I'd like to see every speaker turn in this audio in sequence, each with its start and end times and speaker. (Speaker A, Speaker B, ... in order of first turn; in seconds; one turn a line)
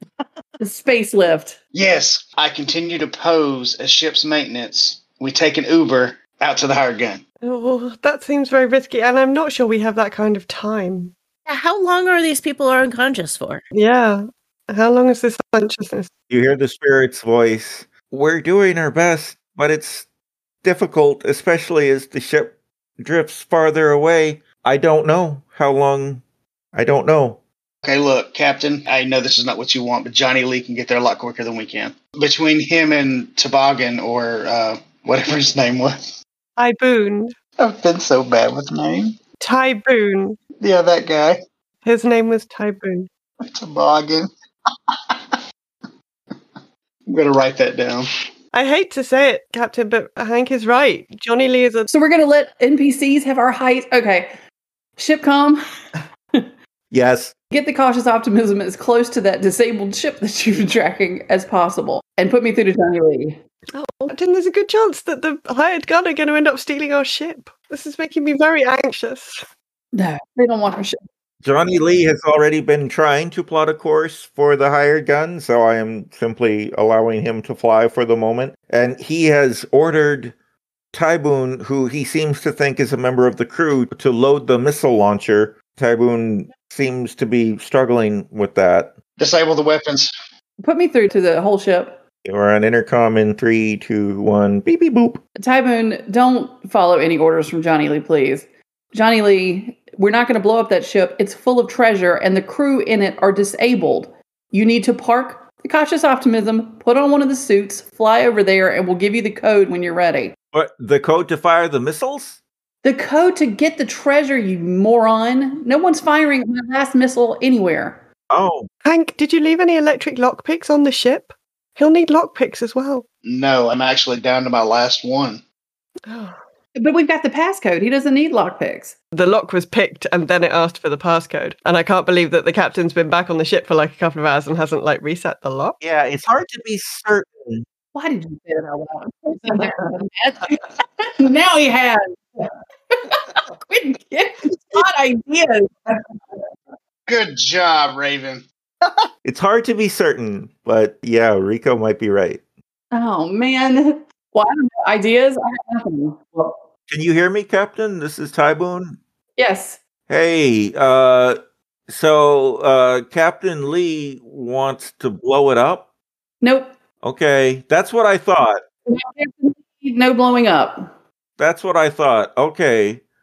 Speaker A: 0.6-1.6
Speaker B: 1.7-7.2
Speaker C: 7.4-11.1
Speaker D: 11.5-13.6
Speaker C: 13.7-16.1
Speaker E: 16.3-20.1
Speaker E: 20.6-27.4
Speaker B: 27.8-36.1
Speaker C: 36.6-37.4
Speaker B: 37.6-39.2
Speaker C: 39.4-40.4
Speaker B: 40.6-41.4
Speaker C: 41.9-43.1
Speaker B: 43.5-44.3
Speaker B: 44.9-45.4
Speaker B: 47.1-48.1
Speaker C: 48.5-51.9
Speaker A: 51.9-54.4
Speaker A: 55.0-55.6
Speaker E: 56.9-57.4
Speaker A: 57.5-63.4
Speaker C: 63.7-69.5
Speaker A: 69.9-71.0
Speaker E: 71.4-80.3
Speaker E: 80.9-89.0
Speaker B: 89.2-90.1
Speaker A: 90.6-92.0
Speaker E: 92.2-95.2
Speaker A: 95.4-110.3
Speaker E: 110.5-112.4
Speaker A: 112.8-118.0
Speaker E: 118.3-118.7
Speaker C: 118.8-123.0
Speaker B: 123.2-125.4
Speaker C: 126.1-126.4
Speaker A: 126.8-128.9
Speaker C: 129.1-135.8
Speaker E: 135.8-137.7
Speaker A: 137.9-146.0
Speaker B: 147.1-148.9
Speaker E: 149.2-152.4
Speaker A: 152.9-156.6
Speaker E: 156.9-159.0
Speaker A: 159.4-159.8
Speaker E: 160.1-165.9
Speaker A: 166.4-166.7
Speaker E: 167.0-168.6
Speaker A: 168.9-170.9
Speaker E: 171.4-173.0